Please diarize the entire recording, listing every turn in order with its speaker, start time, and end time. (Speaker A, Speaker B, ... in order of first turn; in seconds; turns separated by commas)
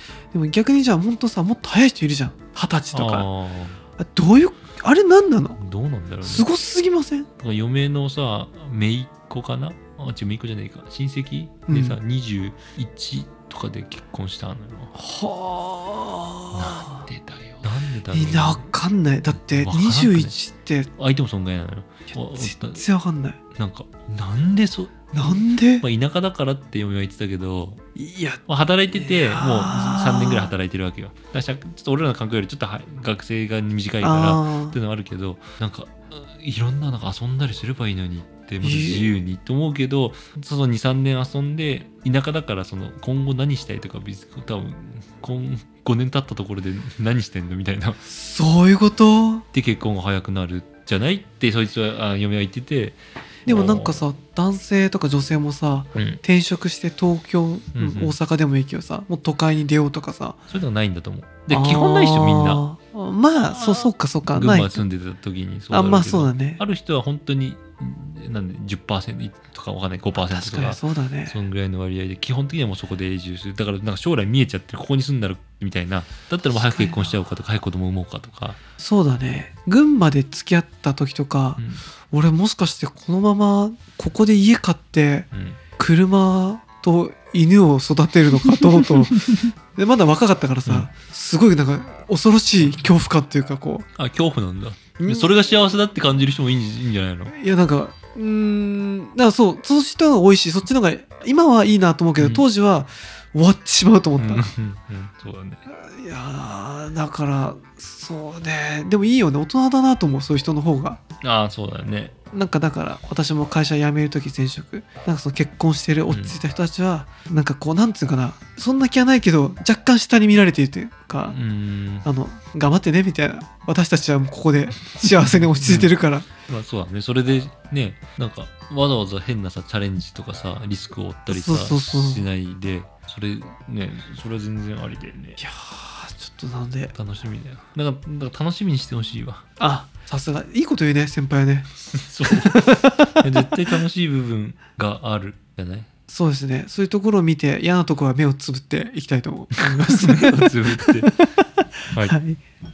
Speaker A: 0.3-3.3, Speaker B: 2.9-3.8, Speaker A: 4.0-5.6, Speaker B: 5.6-6.5, Speaker A: 6.2-7.3, Speaker B: 7.4-14.9, Speaker A: 11.7-12.0, Speaker A: 14.9-17.1, Speaker B: 16.5-18.7, Speaker A: 18.1-20.9, Speaker B: 19.3-20.3, Speaker B: 20.9-22.8, Speaker A: 22.1-23.4, Speaker B: 23.5-27.8, Speaker A: 25.1-25.8, Speaker A: 27.9-30.5, Speaker B: 28.5-48.0, Speaker A: 34.0-34.8, Speaker A: 38.6-39.1, Speaker A: 48.0-49.4, Speaker B: 49.5-54.0, Speaker A: 53.4-60.4, Speaker B: 55.9-56.2, Speaker B: 57.7-58.1, Speaker B: 60.5-62.6, Speaker A: 61.5-64.8, Speaker B: 63.5-78.6, Speaker A: 65.7-66.6, Speaker A: 70.2-71.3, Speaker A: 76.5-77.1, Speaker A: 78.8-85.3, Speaker B: 81.6-81.8, Speaker B: 85.3-85.6, Speaker A: 85.8-93.8, Speaker B: 88.5-89.5, Speaker B: 94.0-97.3, Speaker A: 95.0-95.4, Speaker A: 97.3-104.5, Speaker B: 102.2-102.4, Speaker B: 104.2-105.6, Speaker A: 105.9-111.0, Speaker B: 111.2-112.1, Speaker A: 112.3-121.4, Speaker B: 116.1-116.4, Speaker B: 121.3-122.0, Speaker A: 122.0-126.2, Speaker B: 125.1-125.9, Speaker B: 126.5-135.4, Speaker A: 131.3-132.2, Speaker A: 135.4-136.9, Speaker B: 136.9-139.4, Speaker A: 139.6-141.7, Speaker B: 141.9-145.9, Speaker A: 142.3-143.4, Speaker A: 146.1-151.3, Speaker B: 149.6-151.1, Speaker A: 152.0-152.4